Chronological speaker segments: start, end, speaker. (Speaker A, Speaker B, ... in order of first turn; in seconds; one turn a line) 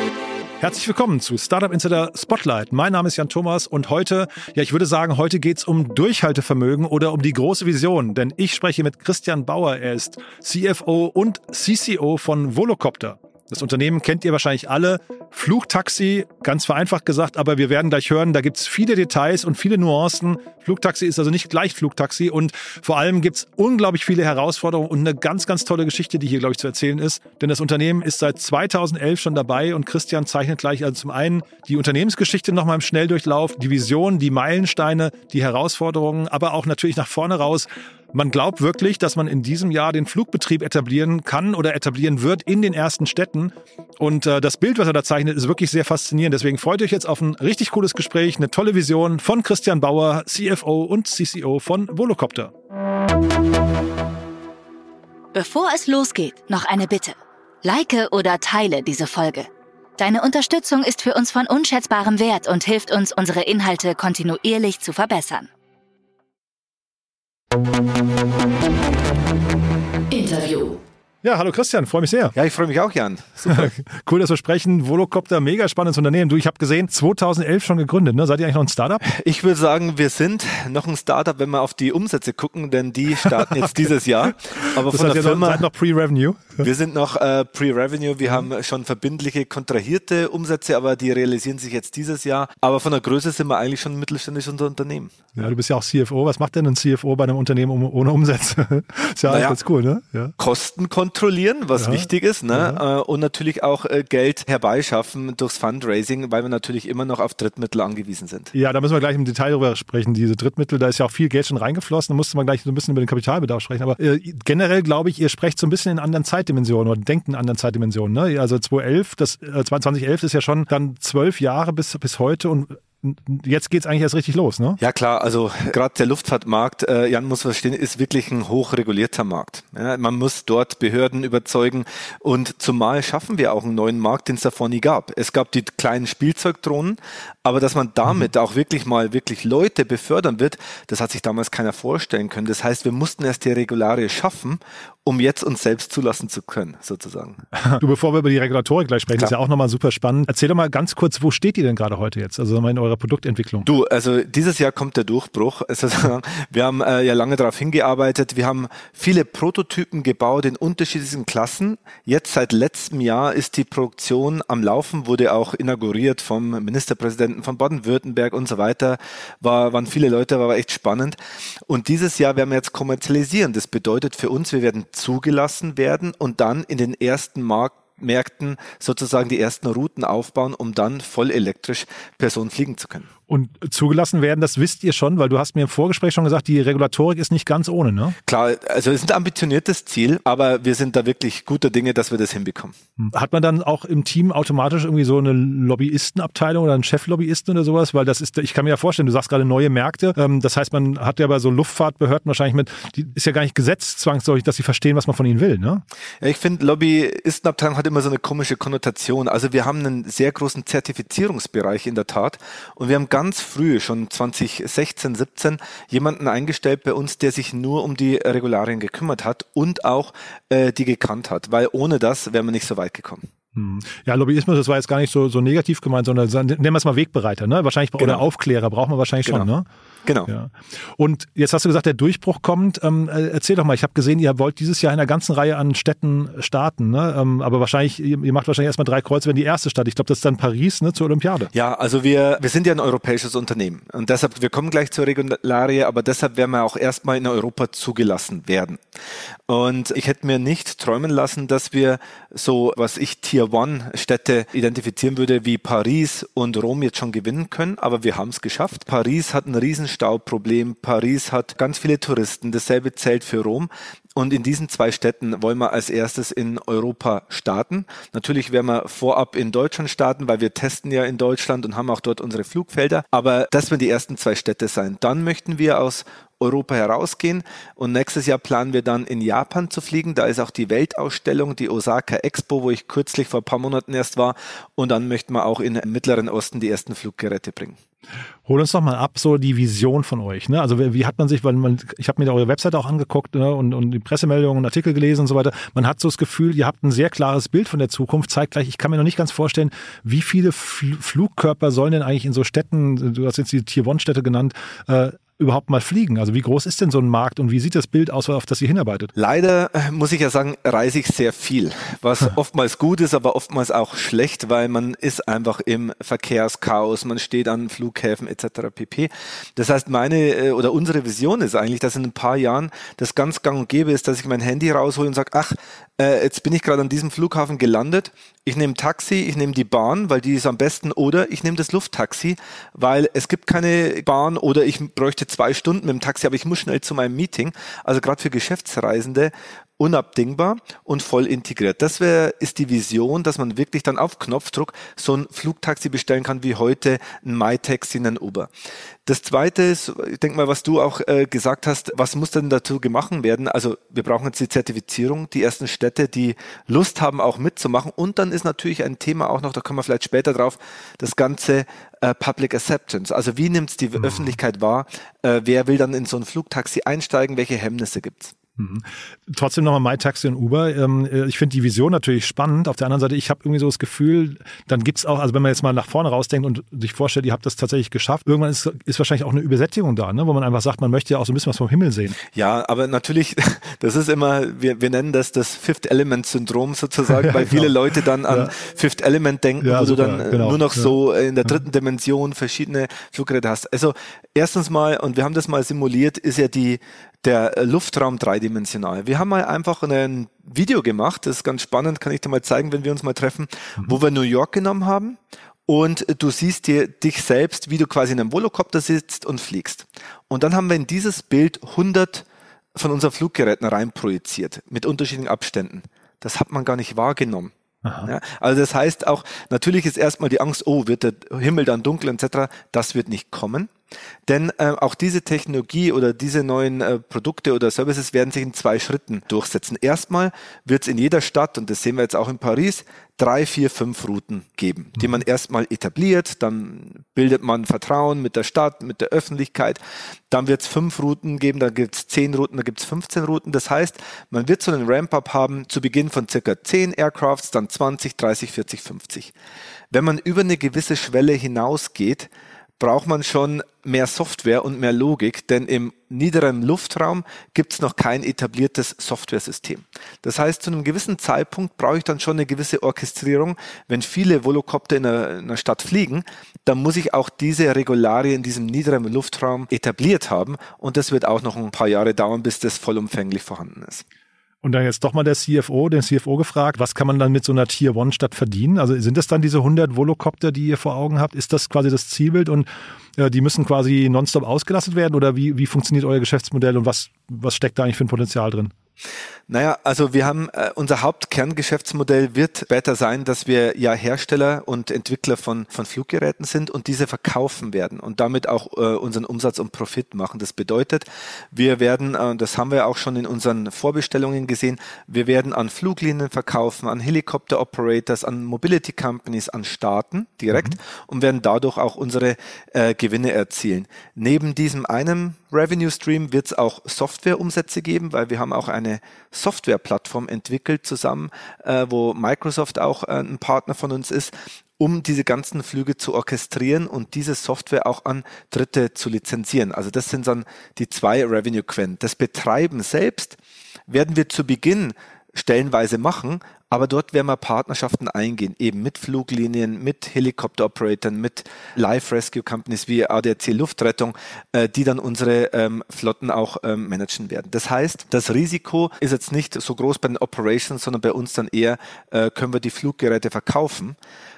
Speaker A: 0.6-52.5
Speaker B: 55.3-65.5
Speaker B: 70.1-70.8
Speaker A: 71.2-72.3
Speaker C: 72.3-73.7
Speaker A: 73.5-79.0
Speaker C: 79.0-85.7
Speaker A: 84.6-86.6
Speaker C: 86.6-95.5
Speaker A: 95.3-100.3
Speaker C: 99.3-99.6
Speaker C: 100.4-108.5
Speaker A: 101.8-102.8
Speaker A: 108.5-124.8
Speaker C: 124.8-147.4
Speaker A: 147.6-153.7
Speaker C: 153.6-183.1
Speaker A: 183.3-188.2
Speaker C: 188.2-192.8
Speaker A: 193.0-205.8
Speaker C: 206.2-223.3
Speaker A: 223.5-229.6
Speaker C: 228.0-228.2
Speaker C: 230.0-230.3
Speaker A: 230.3-241.5
Speaker C: 241.5-248.8
Speaker C: 249.5-287.8
Speaker A: 288.4-309.1
Speaker C: 309.1-348.5
Speaker C: 349.1-368.3
Speaker A: 368.6-382.2
Speaker C: 382.3-417.5
Speaker A: 387.2-387.7
Speaker A: 388.3-388.5
Speaker A: 389.6-390.9
Speaker A: 417.8-418.1
Speaker C: 418.0-423.7
Speaker C: 424.3-449.3
Speaker C: 449.9-474.0
Speaker A: 474.6-488.7
Speaker C: 489.5-554.0